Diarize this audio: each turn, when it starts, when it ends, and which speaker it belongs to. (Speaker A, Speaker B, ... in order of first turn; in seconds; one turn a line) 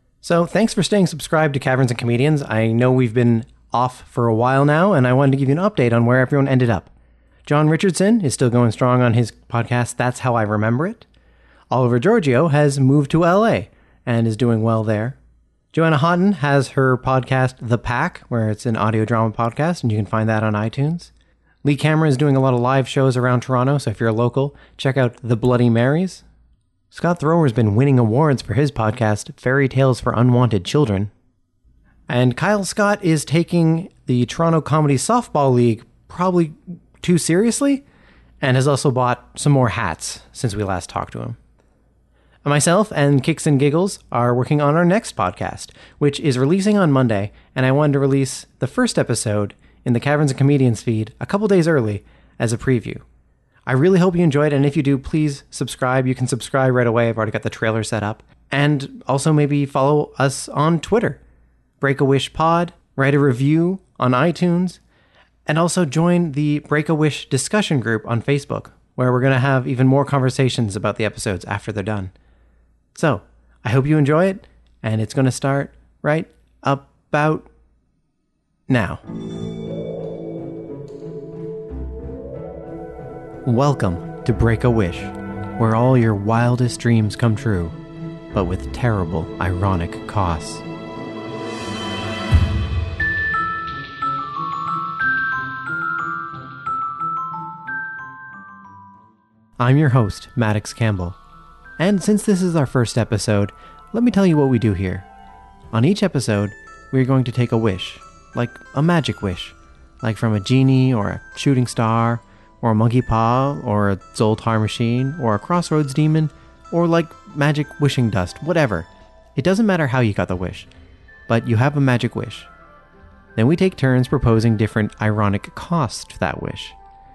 Speaker A: 0.2-6.9
Speaker A: 7.5-11.1
Speaker A: 11.7-15.2
Speaker A: 15.7-21.1
Speaker A: 21.6-26.2
Speaker A: 26.9-31.1
Speaker A: 32.1-37.8
Speaker A: 38.4-41.4
Speaker A: 42.4-53.0
Speaker A: 53.6-61.2
Speaker A: 61.8-64.8
Speaker A: 65.5-72.1
Speaker A: 72.9-77.5
Speaker A: 78.7-79.0
Speaker A: 83.4-87.8
Speaker A: 88.3-90.6
Speaker A: 99.6-101.2
Speaker A: 101.8-105.1
Speaker A: 105.7-120.7
Speaker A: 121.3-122.5
Speaker A: 123.3-126.8